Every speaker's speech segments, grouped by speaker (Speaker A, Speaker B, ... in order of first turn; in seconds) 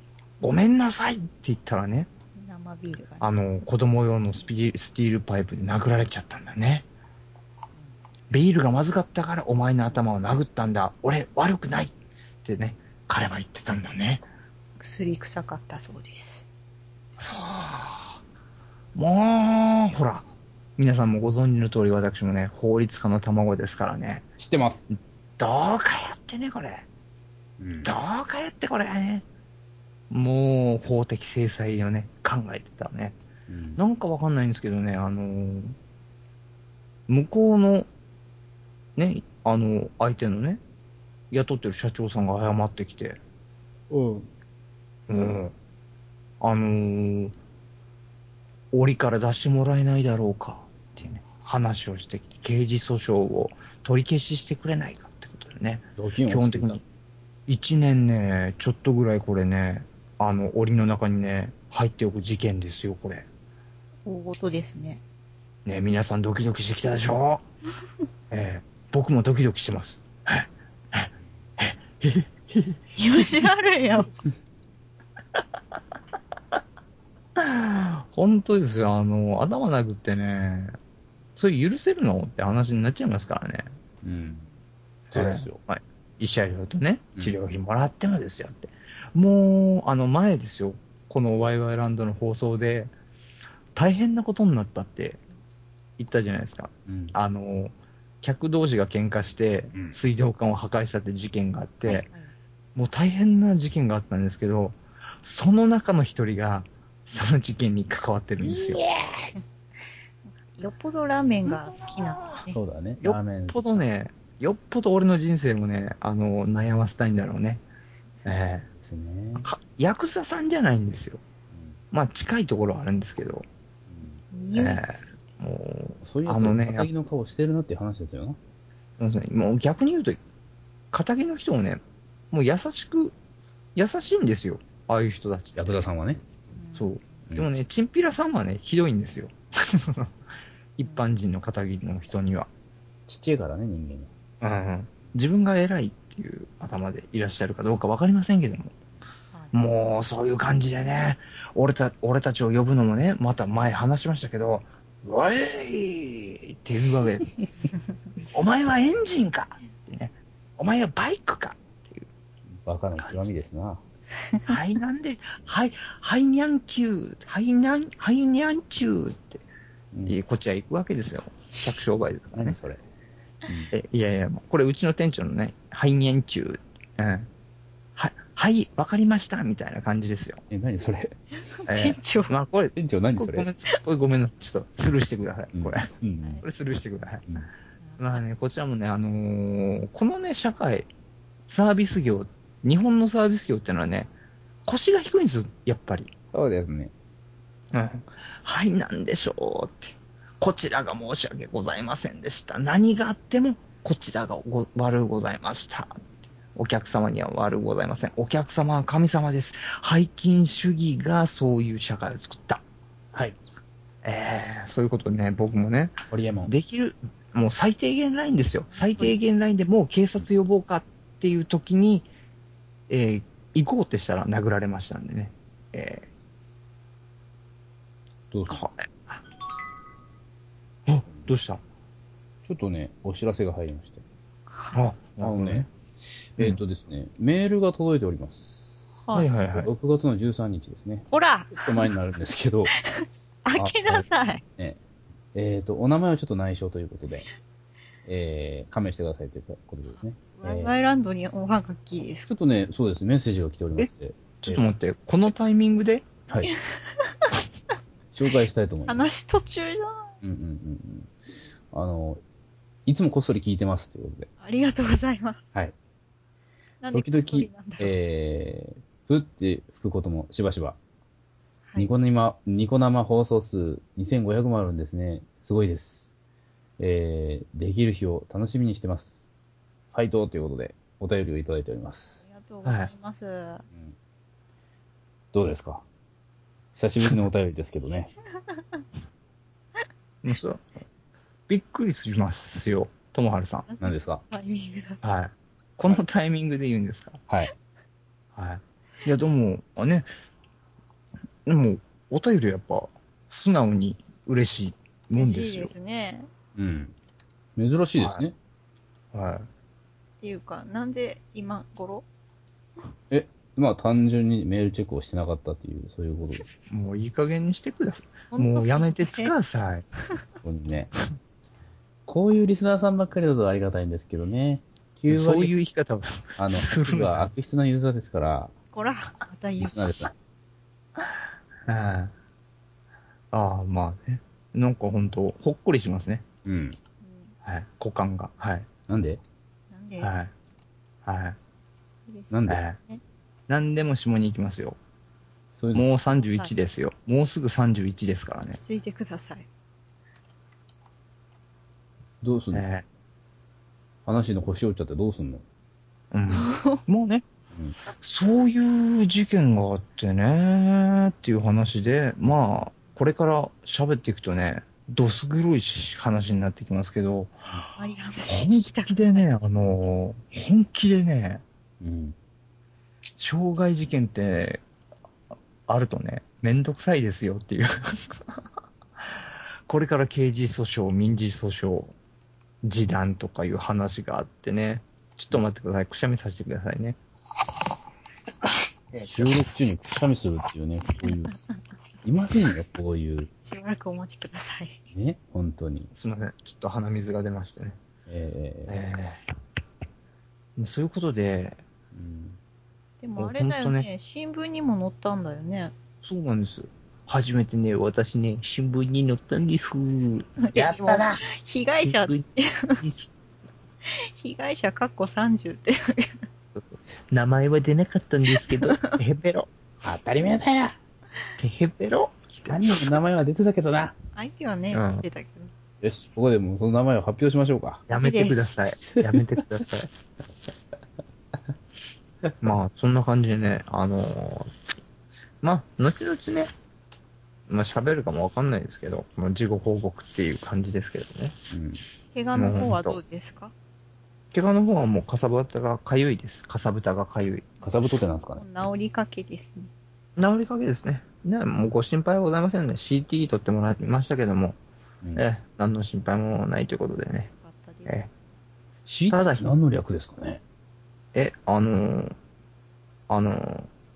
Speaker A: 0.4-2.1, 3.2-6.9, 8.3-14.2, 17.2-18.2, 18.9-24.3, 24.9-26.9, 27.8-29.2, 30.1-33.2, 33.8-35.8, 37.1-37.9, 39.0-40.6, 41.3-43.2, 45.1-45.5, 46.4-47.3, 48.7-56.8, 57.5-63.3, 65.7-67.5, 68.3-73.5, 77.4-80.8, 81.4-83.7, 85.1-92.9, 93.8-95.2, 96.0-102.1, 102.8-108.8, 111.5-112.5, 113.0-117.6, 118.2-118.7, 119.4-121.2, 121.9-123.5, 124.5-126.9, 129.0-130.2, 130.9-133.2, 133.8-135.8, 136.8-140.1, 140.8-142.5, 144.4-148.7, 149.5-157.3, 158.3-162.1, 162.9-163.3, 164.5-169.4, 170.1-172.6, 173.7-177.3, 178.0-180.4, 181.7-187.4, 188.0-190.9, 191.5-194.1, 194.7-196.1, 197.7-206.0, 206.5-212.6, 214.0-222.1, 222.9-226.1, 228.5-229.2, 230.9-231.6, 234.7-235.7, 239.1-239.7, 253.8-256.1, 282.6-282.9, 290.2-290.7, 291.5-293.7, 295.0-297.2, 298.4-300.1, 301.5-305.7, 308.0-308.2, 309.1-309.5, 316.7-319.9, 325.1-327.3, 331.7-332.1, 333.3-336.2, 337.4-338.7, 340.0-340.3, 341.1-341.4, 342.5-342.8, 343.5-344.8, 345.7-348.6, 352.5-352.9, 356.1-357.2, 357.9-367.4, 368.3-371.4, 373.2-374.6, 375.7-378.1, 379.7-381.9, 382.6-387.0, 388.9-389.4, 395.9-397.8, 398.7-399.2, 400.6-401.6, 403.2-403.9, 406.0-410.3, 411.8-412.3, 412.8-413.1, 416.6-419.5, 421.4-422.8, 424.7-425.1, 427.9-429.9, 432.4-434.5, 435.4-436.5, 437.5-441.4, 442.4-443.0, 444.3-447.5, 450.2-454.6, 455.1-457.3, 459.1-459.5, 461.1-462.1, 463.1-463.7
Speaker B: 2.4-3.3, 14.8-16.4, 64.1-65.0, 73.0-74.1, 101.9-102.3, 110.3-112.5, 124.3-125.2, 136.6-137.1, 181.6-182.3, 241.1-241.9, 242.7-244.4, 250.3-252.3, 256.5-257.1, 258.9-260.1, 264.4-265.4, 266.8-267.9, 282.2-283.6, 293.7-295.0, 305.1-306.3, 310.2-312.1, 318.3-319.4, 328.7-330.1, 337.0-337.3, 339.7-340.1, 342.1-343.0, 346.1-346.5, 348.5-349.5, 356.3-356.8, 367.8-369.3, 393.4-394.8, 403.0-405.7, 410.4-412.8, 413.9-416.2, 418.3-419.0, 424.1-425.5, 428.0-428.6, 442.1-443.5, 448.4-449.7, 457.4-458.1
Speaker C: 24.4-24.9, 27.6-27.9, 33.5-33.8, 43.9-44.3, 56.0-56.8, 84.0-84.5, 85.1-85.6, 96.9-97.1, 108.4-109.3, 112.5-113.8, 118.8-119.5, 123.9-124.2, 126.0-128.4, 135.6-136.2, 143.1-144.1, 162.5-163.8, 172.3-172.8, 173.5-173.7, 180.5-181.2, 182.8-183.5, 185.6-186.4, 196.3-196.9, 216.1-216.5, 228.3-228.6, 232.5-234.0, 235.2-238.6, 239.5-242.8, 243.6-244.1, 245.3-247.3, 248.1-250.8, 252.3-254.7, 258.1-259.1, 260.2-261.1, 261.7-262.2, 262.9-264.3, 266.9-270.8, 271.8-276.1, 276.8-279.2, 279.9-282.2, 285.3-285.9, 286.8-288.1, 293.8-294.2, 306.6-306.9, 307.6-308.4, 313.1-316.5, 320.4-320.9, 322.1-325.5, 326.4-328.5, 329.6-330.1, 336.4-336.8, 338.9-339.2, 342.3-342.6, 345.6-345.9, 352.2-352.6, 354.1-355.4, 371.8-372.2, 389.1-391.3, 392.0-393.3, 394.9-395.9, 398.1-398.8, 401.9-402.4, 410.5-411.2, 419.8-420.8, 422.5-423.9, 425.8-427.9, 441.5-441.8, 447.6-448.5, 458.9-460.4